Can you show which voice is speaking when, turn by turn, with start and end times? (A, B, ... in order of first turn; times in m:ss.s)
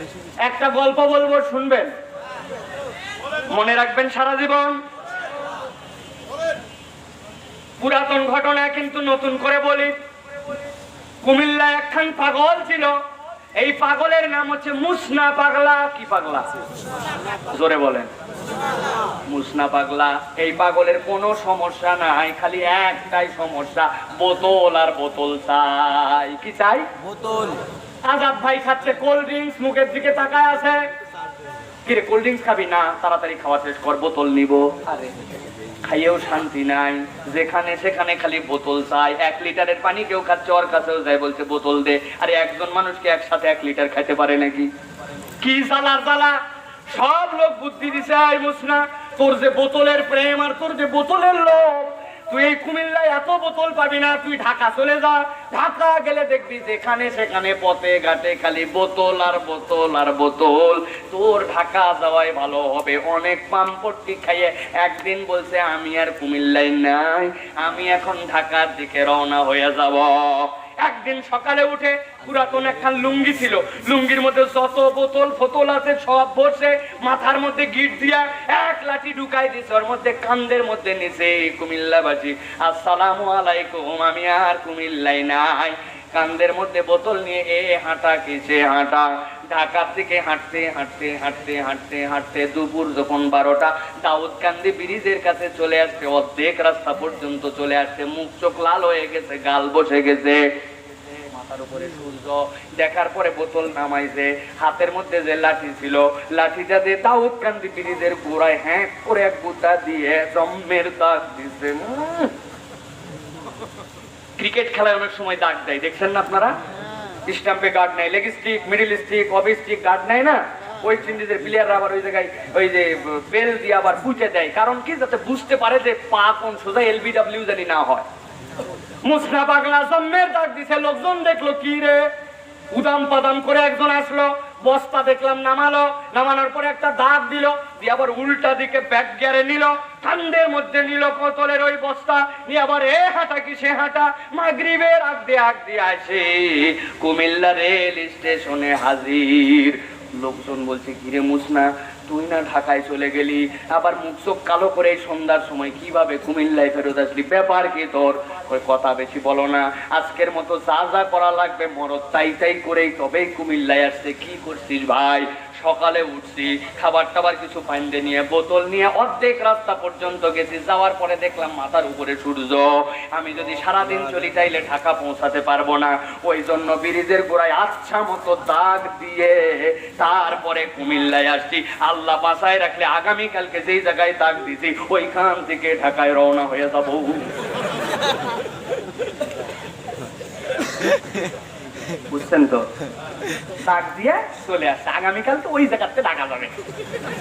0:00.5-0:01.9 A
0:03.5-0:04.8 A
0:07.8-0:09.9 A
0:11.2-0:12.9 A
0:13.6-0:16.4 A
0:17.5-0:18.1 A
0:19.3-0:26.9 A
0:28.1-0:30.8 A
0:31.9-0:35.1 A
0:35.8-0:44.7 A
0:45.4-0:46.4 A
0:46.9-1:40.5 A
1:41.0-1:52.3 A
1:54.4-1:56.6 A
1:57.3-2:08.0 A
2:09.0-2:12.1 A
2:12.7-3:07.3 A
3:12.1-3:12.7 A
3:13.6-3:16.6 A